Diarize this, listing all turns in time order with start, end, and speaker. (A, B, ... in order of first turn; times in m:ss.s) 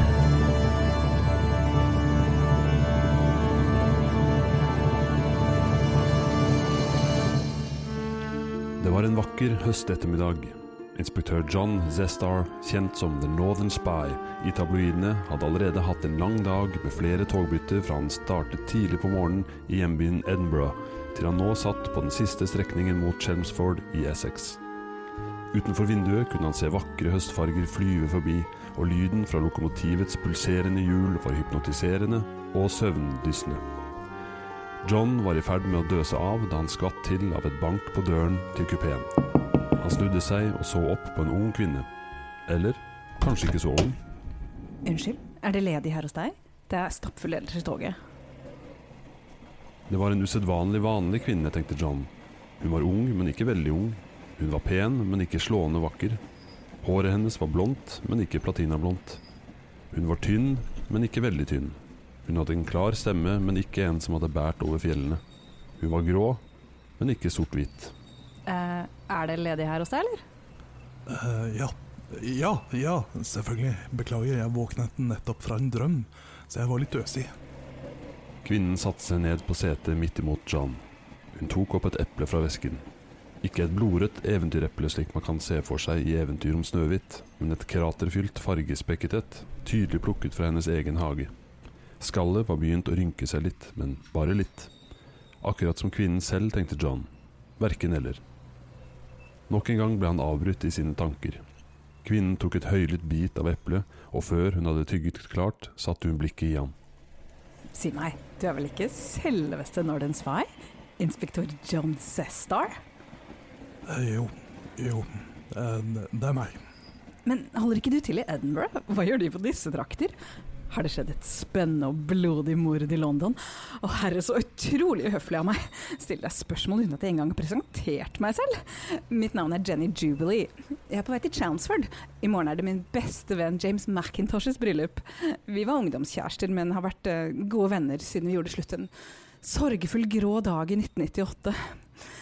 0:08.8-0:24.6 A
0:25.5-0:33.6 A
0:34.8-0:39.2 A
0:39.8-0:41.9 A
0:42.5-0:44.0 A
0:44.8-0:48.0 B
0:49.9-0:56.2 A
0:56.8-0:59.2 A
0:59.9-1:05.2 A
1:05.8-1:06.4 A
1:07.0-1:07.9 A
1:08.5-1:10.2 B
1:11.0-1:17.3 C
1:18.4-1:20.8 A
1:21.3-1:22.8 A
1:23.4-1:31.3 A
1:32.0-1:34.7 A
1:35.4-1:38.2 A
1:39.5-1:41.4 A
1:42.0-1:46.7 A
1:47.7-1:52.8 B
1:53.8-1:56.6 C
1:57.2-2:00.1 B
2:00.7-2:18.9 B
2:19.4-2:21.7 B